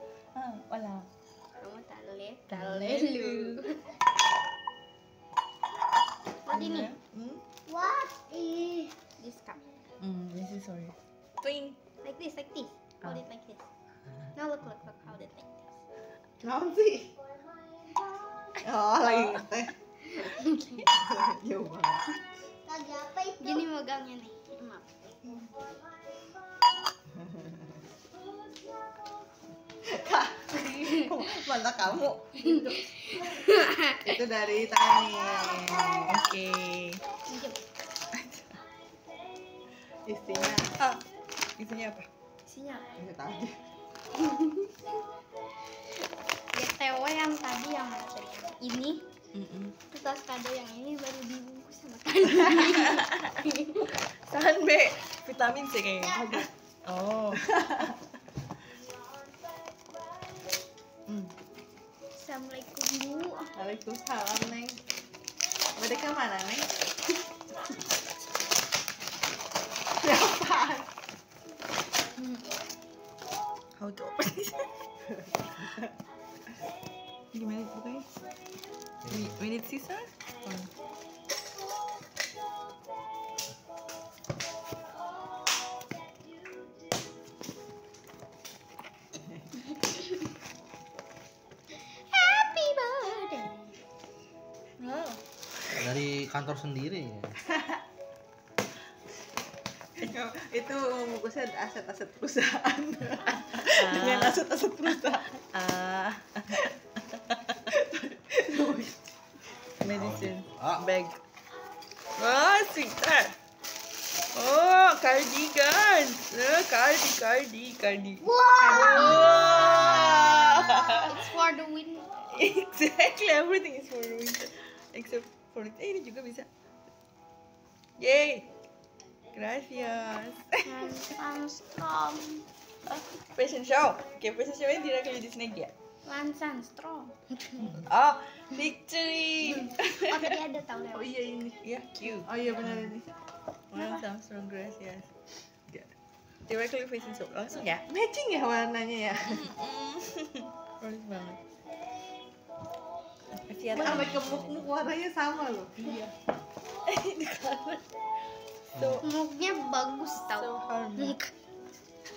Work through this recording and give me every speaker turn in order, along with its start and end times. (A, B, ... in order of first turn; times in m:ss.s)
0:00.3-0:01.1 A
0:01.6-0:04.0 B
0:02.5-0:03.6 A
0:06.4-0:06.9 B
0:06.5-0:07.4 A
0:07.7-0:09.6 B
0:10.0-0:11.8 A
0:12.0-0:13.7 B
0:14.3-0:15.8 B
0:16.4-0:17.1 C
0:18.6-0:19.7 C
0:19.1-0:19.4 A
0:20.1-0:20.8 B
0:20.9-0:22.0 C
0:22.7-0:25.4 B
0:27.2-0:27.6 C
0:29.8-0:32.8 C
0:30.5-0:31.2 B
0:32.4-0:34.1 B
0:34.0-0:36.2 C
0:36.0-0:37.0 A
0:37.2-0:37.6 B
0:38.1-0:38.6 A
0:40.0-0:40.7 C
0:40.7-0:41.0 A
0:41.6-0:42.1 A
0:42.5-0:42.9 B
0:42.9-0:43.5 C
0:44.1-0:44.7 B
0:46.5-0:49.0 B
0:49.3-0:49.8 A
0:49.9-0:53.9 B
0:52.2-0:58.0 A
0:56.2-0:56.4 C
1:01.1-1:01.3 A
1:02.1-1:03.5 B
1:03.6-1:04.8 C
1:05.8-1:06.7 C
1:10.0-1:10.9 C
1:12.2-1:12.4 B
1:13.8-1:14.7 A
1:15.1-1:15.9 C
1:17.3-1:18.1 A
1:19.0-1:19.4 D
1:19.1-1:20.7 A
1:29.6-1:30.2 B
1:31.7-1:33.7 B
1:34.8-1:35.8 A
1:35.7-1:37.4 D
1:37.5-1:37.8 C
1:40.0-1:45.4 C
1:43.3-1:47.7 A
1:47.7-1:49.1 C
1:49.8-1:51.2 A
1:49.8-1:50.8 D
1:52.2-1:53.4 A
1:54.3-2:01.2 A
1:58.2-2:02.3 B
2:02.3-2:06.5 A
2:08.0-2:08.5 A
2:09.3-2:10.8 A
2:10.6-2:12.4 B
2:12.8-2:15.7 A
2:16.0-2:17.8 B
2:17.7-2:20.4 A
2:19.5-2:21.2 B
2:20.9-2:23.1 C
2:21.6-2:22.9 A
2:23.7-2:25.1 A
2:25.7-2:25.9 A
2:26.5-2:27.9 A
2:27.9-2:29.4 C
2:29.2-2:31.4 A
2:33.3-2:34.9 A
2:33.7-2:35.7 C
2:35.8-2:36.1 A
2:36.9-2:37.8 A
2:38.7-2:39.0 A
2:38.7-2:39.0 D
2:39.0-2:41.2 B
2:40.1-2:41.2 A